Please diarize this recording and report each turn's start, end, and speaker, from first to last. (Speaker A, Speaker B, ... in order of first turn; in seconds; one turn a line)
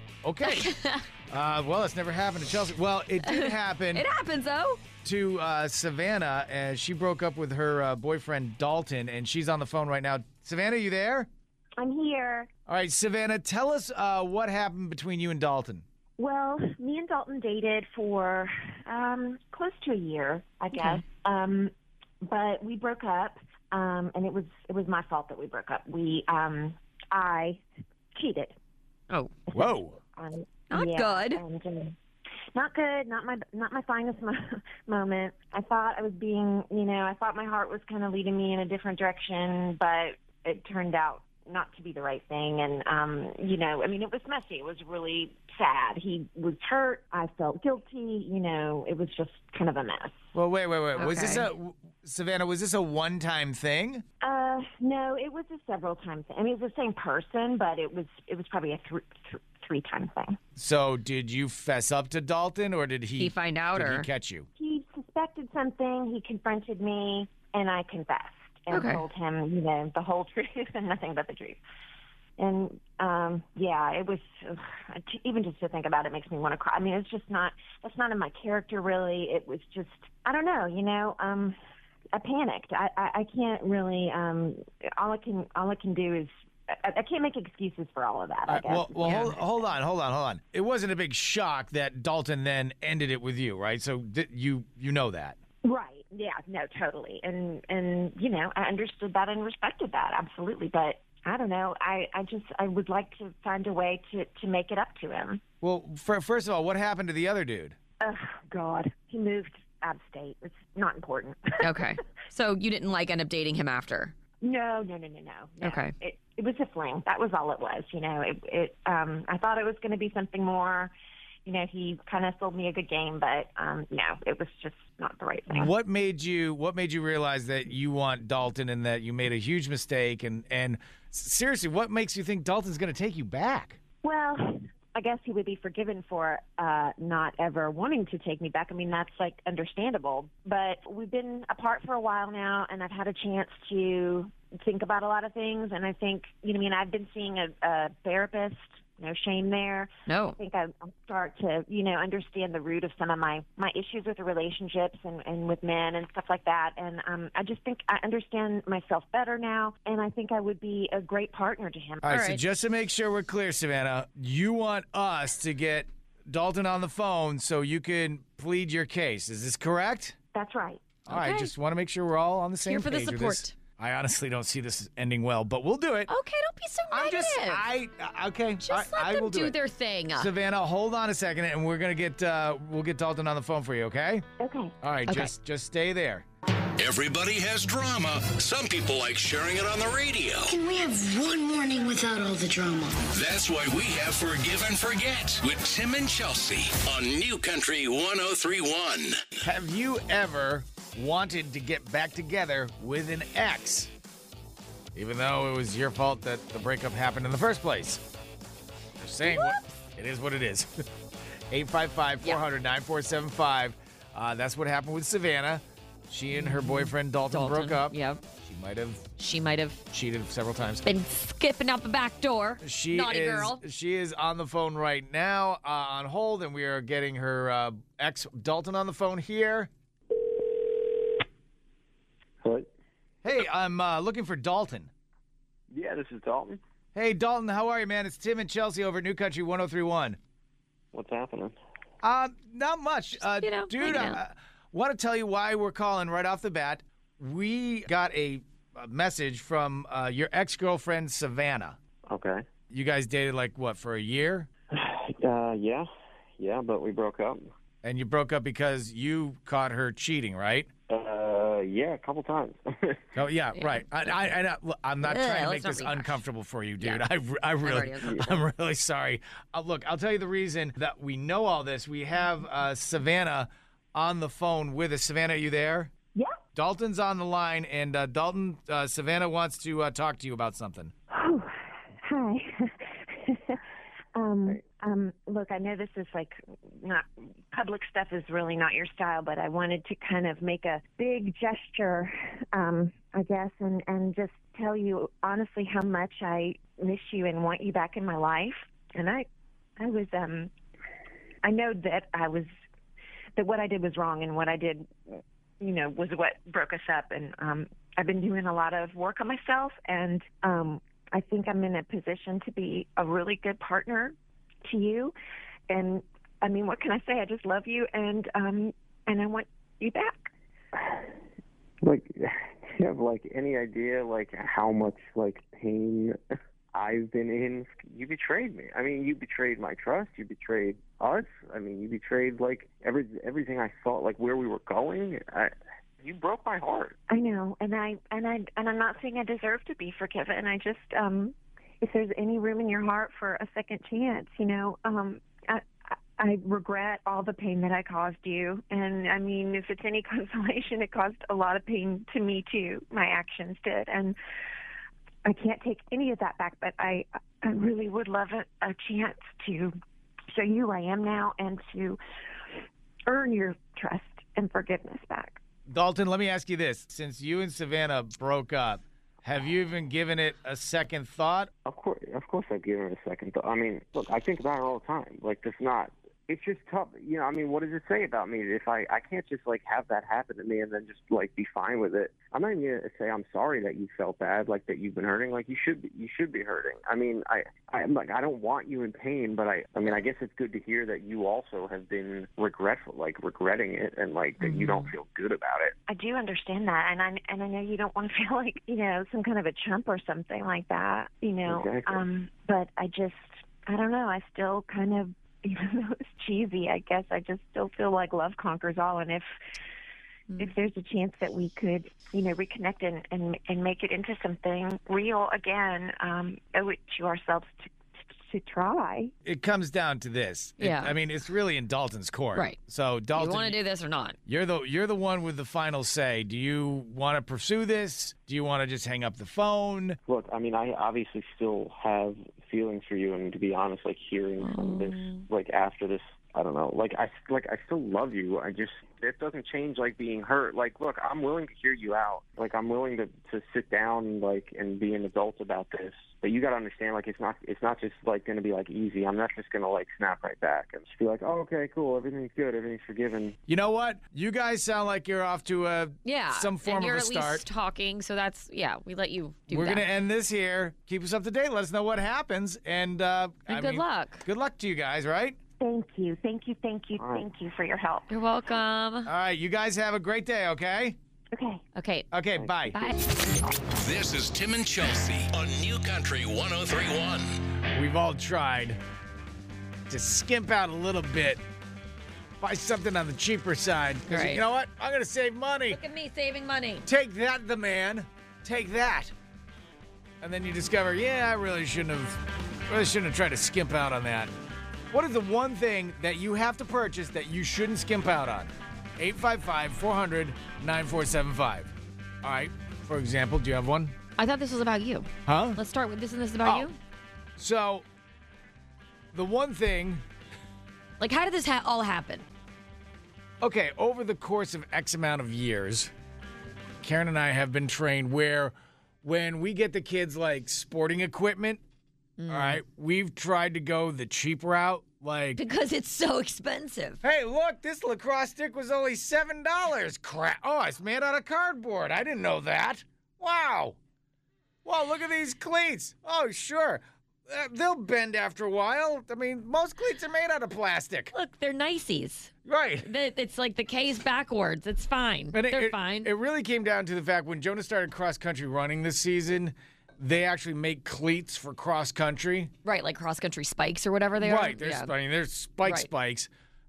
Speaker A: 0.2-0.7
Speaker B: 0.4-1.0
Speaker A: 1.3-4.0
Speaker B: 3.2-4.8
Speaker A: 5.0-11.3
Speaker C: 11.8-12.5
Speaker A: 12.7-15.8
Speaker C: 16.2-27.6
Speaker B: 20.7-21.0
Speaker C: 28.1-28.6
Speaker C: 29.5-32.0
Speaker A: 29.5-30.0
Speaker B: 30.7-31.4
Speaker C: 32.5-50.2
Speaker A: 50.4-54.0
Speaker B: 51.0-51.5
Speaker C: 54.2-60.4
Speaker A: 60.5-64.5
Speaker B: 63.2-64.1
Speaker C: 64.6-71.6
Speaker B: 68.7-69.0
Speaker C: 72.4-81.6
Speaker C: 82.1-89.3
Speaker A: 88.5-95.4
Speaker B: 89.0-89.3
Speaker C: 95.6-105.4
Speaker A: 105.6-107.8
Speaker C: 108.0-111.7
Speaker B: 111.6-114.1
Speaker C: 114.4-120.9
Speaker B: 115.6-115.9
Speaker C: 121.4-125.7
Speaker A: 125.5-133.8
Speaker C: 134.0-162.1
Speaker B: 150.1-150.4
Speaker A: 162.0-170.2
Speaker B: 162.0-162.4
Speaker C: 170.3-170.8
Speaker A: 171.1-176.1
Speaker B: 171.1-171.5
Speaker B: 172.6-173.5
Speaker B: 176.1-177.6
Speaker A: 176.9-179.5
Speaker B: 178.6-180.3
Speaker A: 180.1-184.2
Speaker C: 184.4-184.8
Speaker A: 184.8-186.2
Speaker B: 185.1-185.3
Speaker D: 186.8-190.6
Speaker E: 190.5-193.0
Speaker D: 193.1-199.2
Speaker A: 199.4-203.9
Speaker A: 204.9-208.0
Speaker A: 209.0-210.8
Speaker A: 211.5-219.1
Speaker B: 216.3-218.2
Speaker B: 219.2-219.8
Speaker A: 219.9-220.8
Speaker B: 220.8-223.6
Speaker A: 222.6-229.7
Speaker F: 232.4-232.7
Speaker A: 233.2-234.9
Speaker F: 235.7-236.6
Speaker A: 236.9-240.2
Speaker F: 240.9-241.6
Speaker A: 242.0-251.8
Speaker B: 243.4-244.2
Speaker F: 252.1-252.4
Speaker A: 252.7-254.5
Speaker F: 254.7-257.5
Speaker A: 257.8-260.7
Speaker F: 260.9-263.0
Speaker A: 263.1-275.9
Speaker B: 263.6-263.8
Speaker B: 265.0-266.2
Speaker B: 266.8-267.0
Speaker B: 267.6-268.3
Speaker A: 276.6-280.9
Speaker C: 281.1-283.6
Speaker C: 284.1-299.2
Speaker C: 299.8-300.5
Speaker C: 301.4-302.5
Speaker C: 303.4-315.1
Speaker C: 315.7-320.3
Speaker F: 320.8-321.1
Speaker F: 321.8-326.2
Speaker F: 326.7-337.0
Speaker C: 337.1-354.1
Speaker C: 355.2-359.8
Speaker C: 360.3-362.0
Speaker C: 363.1-365.4
Speaker A: 365.7-371.5
Speaker F: 371.6-395.8
Speaker B: 394.4-394.9
Speaker C: 395.9-409.3
Speaker F: 401.4-402.0
Speaker C: 410.4-417.7
Speaker C: 418.2-419.1
Speaker A: 419.2-423.6
Speaker B: 420.6-420.9
Speaker B: 423.1-424.2
Speaker A: 424.3-430.0
Speaker F: 430.1-453.4
Speaker B: 434.4-435.2
Speaker A: 453.5-457.4
Speaker B: 456.1-459.9
Speaker A: 459.5-465.4
Speaker B: 463.5-464.2
Speaker C: 465.6-468.1
Speaker F: 467.0-467.2
Speaker B: 468.1-469.1
Speaker A: 469.1-471.0
Speaker C: 471.3-471.6
Speaker B: 471.8-472.1
Speaker A: 472.1-472.8
Speaker F: 472.4-472.7
Speaker B: 472.7-473.0
Speaker D: 473.6-477.4
Speaker A: 477.7-478.8
Speaker A: 479.9-481.4
Speaker A: 482.4-485.8
Speaker B: 484.1-484.4
Speaker B: 485.7-486.9
Speaker A: 486.9-489.1
Speaker A: 490.2-494.3
Speaker A: 494.9-501.7
Speaker A: 502.2-504.0
Speaker B: 504.2-506.8
Speaker A: 505.2-505.6
Speaker A: 506.4-506.7
Speaker A: 507.4-507.9
Speaker A: 509.1-510.0
Speaker B: 511.0-512.2
Speaker A: 513.4-515.9
Speaker A: 516.8-521.6
Speaker B: 522.2-522.6
Speaker A: 522.3-525.4
Speaker B: 525.4-527.0
Speaker A: 527.0-533.8
Speaker A: 534.6-541.1
Speaker B: 541.1-546.1
Speaker A: 542.5-542.9
Speaker A: 545.3-552.5
Speaker B: 552.6-554.9
Speaker A: 554.2-556.3
Speaker B: 555.6-555.9